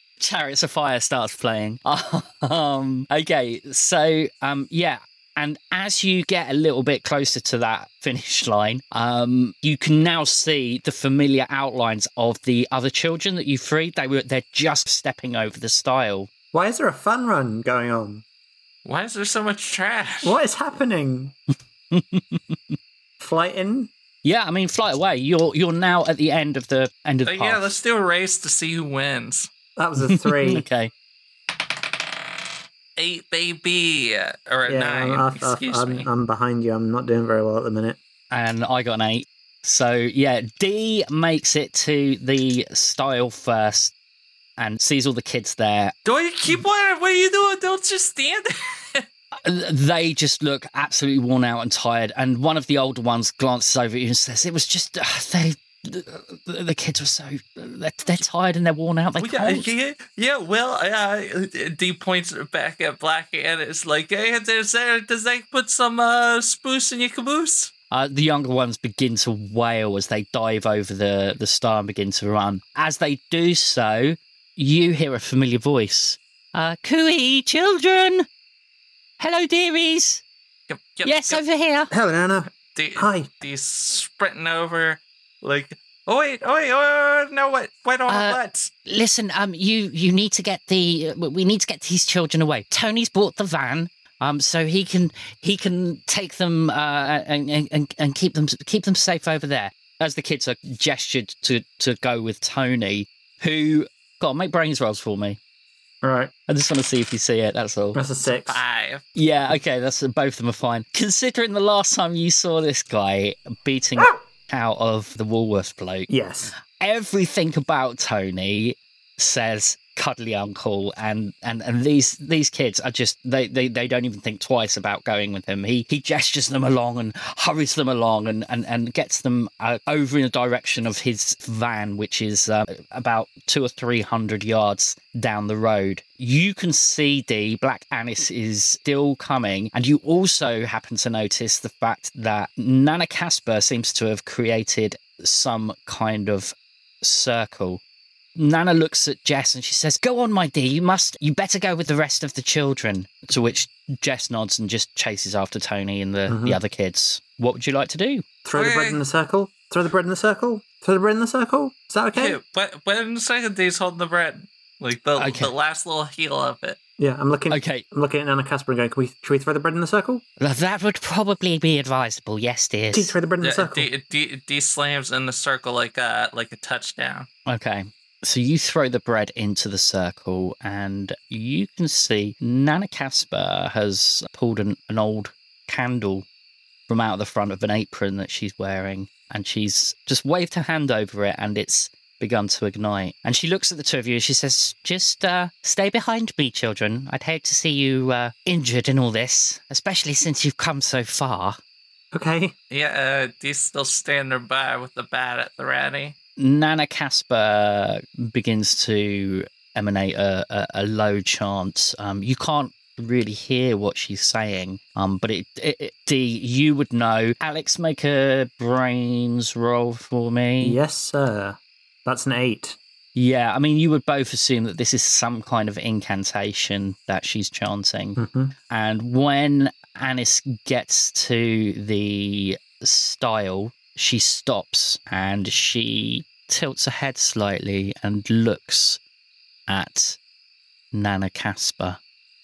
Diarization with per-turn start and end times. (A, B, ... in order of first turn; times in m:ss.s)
0:00.2-0:16.3 A
0:16.5-0:18.2 B
0:18.8-0:20.4 C
0:20.2-0:21.4 B
0:21.9-0:22.8 A
0:23.2-0:23.9 B
0:24.2-0:27.7 A
0:27.2-0:29.5 C
0:29.8-0:30.7 B
0:30.0-0:30.9 A
0:33.0-0:36.1 C
0:34.7-0:38.0 B
0:38.3-0:43.9 A
0:44.6-0:45.9 A
0:46.0-0:49.0 C
0:49.4-0:59.7 A
0:59.2-1:07.7 C
1:07.9-1:18.3 A
1:19.2-1:20.2 A
1:20.7-1:21.4 C
1:21.0-1:21.9 A
1:21.9-1:23.3 B
1:22.5-1:28.7 C
1:28.1-1:45.4 A
1:46.0-1:46.3 B
1:46.5-1:48.0 A
1:48.0-1:48.6 B
1:48.5-1:49.0 C
1:49.2-1:56.1 A
1:56.1-1:56.5 B
1:56.8-2:27.8 A
2:28.4-2:38.2 A
2:36.3-2:36.6 B
2:38.4-2:42.4 B
2:38.6-2:39.0 C
2:42.1-2:46.8 C
2:45.2-2:45.5 A
2:47.0-2:50.2 B
2:47.5-2:47.8 A
2:50.4-2:53.2 A
2:52.9-2:53.9 B
2:53.4-2:57.3 C
2:57.5-3:06.3 A
3:06.9-3:21.6 A
3:22.1-3:22.6 B
3:22.7-3:26.2 C
3:26.4-3:40.8 A
3:40.6-3:42.8 B
3:43.2-3:48.2 A
3:48.2-3:48.5 B
3:48.7-3:59.0 A
3:59.7-4:00.2 A
4:00.9-4:02.0 A